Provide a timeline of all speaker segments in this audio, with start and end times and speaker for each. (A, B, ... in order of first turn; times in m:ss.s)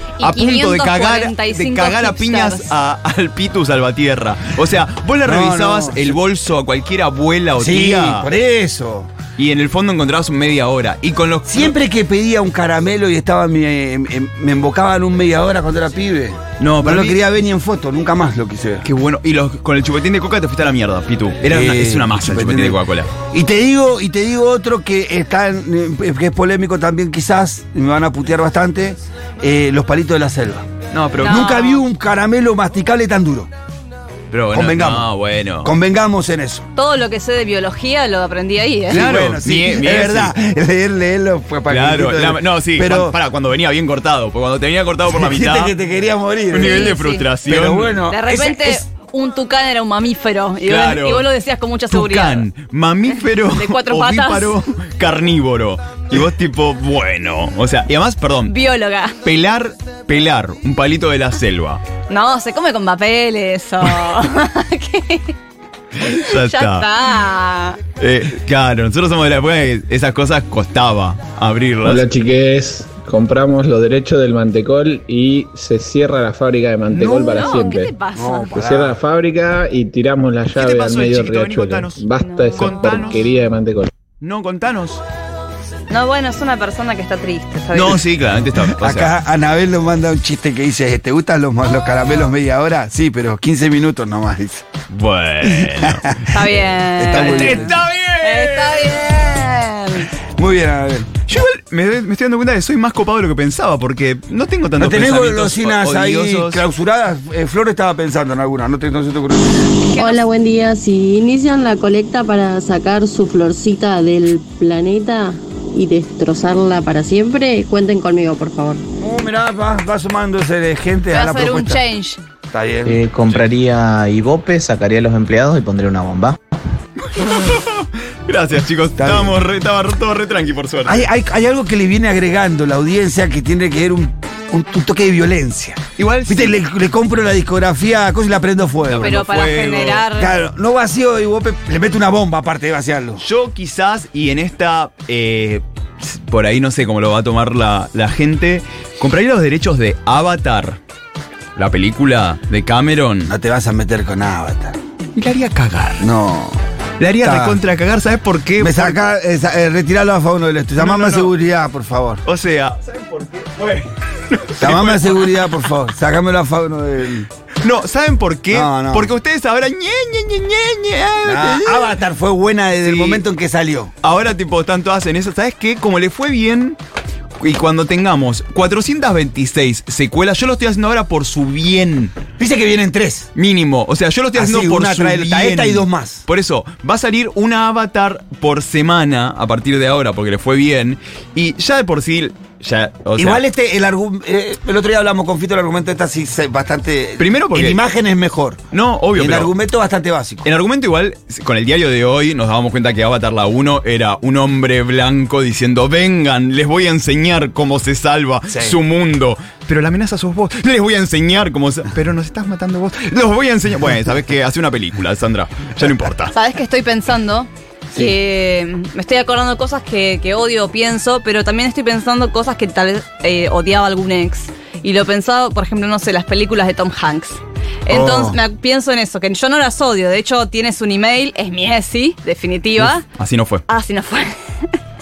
0:00.2-0:02.7 A
0:00.2-0:08.3 B
0:05.2-0:06.2 C
0:07.6-0:09.1 C
0:09.4-0:11.8 B
0:11.5-0:18.9 C
0:16.6-0:17.2 B
0:18.8-0:23.1 B
0:21.4-0:30.7 C
0:30.9-0:31.4 B
0:31.2-0:31.8 A
0:31.2-0:33.5 C
0:34.3-0:35.7 B
0:34.5-0:35.1 C
0:35.6-0:36.6 C
0:36.8-0:39.1 A
0:38.9-0:43.2 C
0:38.9-0:40.3 B
0:41.7-0:45.8 B
0:45.1-0:46.9 C
0:46.5-0:48.0 B
0:46.5-0:47.3 A
0:47.5-0:48.8 C
0:48.1-0:52.5 A
0:50.6-0:51.3 B
0:51.9-0:58.6 B
0:53.4-0:54.6 A
0:58.5-0:59.2 A
0:59.2-1:01.8 B
1:02.1-1:05.3 A
1:06.0-1:06.9 B
1:06.0-1:07.8 A
1:08.0-1:12.0 B
1:11.8-1:17.9 D
1:16.9-1:17.8 B
1:17.2-1:18.6 A
1:18.1-1:19.0 C
1:18.5-1:23.9 D
1:20.6-1:23.3 B
1:22.2-1:23.2 A
1:24.2-1:25.0 B
1:25.9-1:28.0 A
1:27.7-1:29.1 B
1:28.8-1:34.7 C
1:34.9-1:36.0 B
1:35.4-1:37.8 C
1:36.3-1:40.1 A
1:37.0-1:39.0 B
1:40.4-1:41.2 C
1:41.3-1:46.6 B
1:44.8-1:49.7 C
1:49.8-1:58.8 E
1:49.8-1:50.3 A
1:59.0-2:01.8 C
2:01.1-2:02.2 A
2:02.5-2:03.0 C
2:02.9-2:06.4 F
2:07.0-2:11.1 B
2:09.0-2:09.4 C
2:10.9-2:19.2 C
2:16.0-2:16.6 B
2:18.9-2:20.1 B
2:19.0-2:20.4 A
2:20.2-2:23.2 C
2:23.2-2:30.8 B
2:31.6-2:33.3 B
2:33.3-2:34.8 C
2:35.2-2:36.1 B
2:36.0-2:36.6 C
2:37.0-2:39.0 B
2:37.2-2:37.6 C
2:38.6-2:42.2 C
2:40.8-2:41.3 B
2:42.2-2:45.7 B
2:44.6-2:47.3 C
2:47.6-2:52.0 B
2:48.5-2:49.1 C
2:51.2-2:53.9 C
2:52.8-2:53.2 B
2:54.0-2:56.8 B
2:57.4-3:02.1 B
3:02.4-3:03.3 C
3:03.4-3:13.4 B
3:04.3-3:06.2 C
3:13.2-3:18.6 C
3:17.2-3:17.8 B
3:18.7-3:19.5 B
3:19.2-3:20.5 C
3:20.4-3:36.3 B
3:28.5-3:28.8 C
3:36.3-3:53.1 A
3:47.9-3:48.4 C
3:52.8-3:53.6 B
3:53.7-3:54.7 A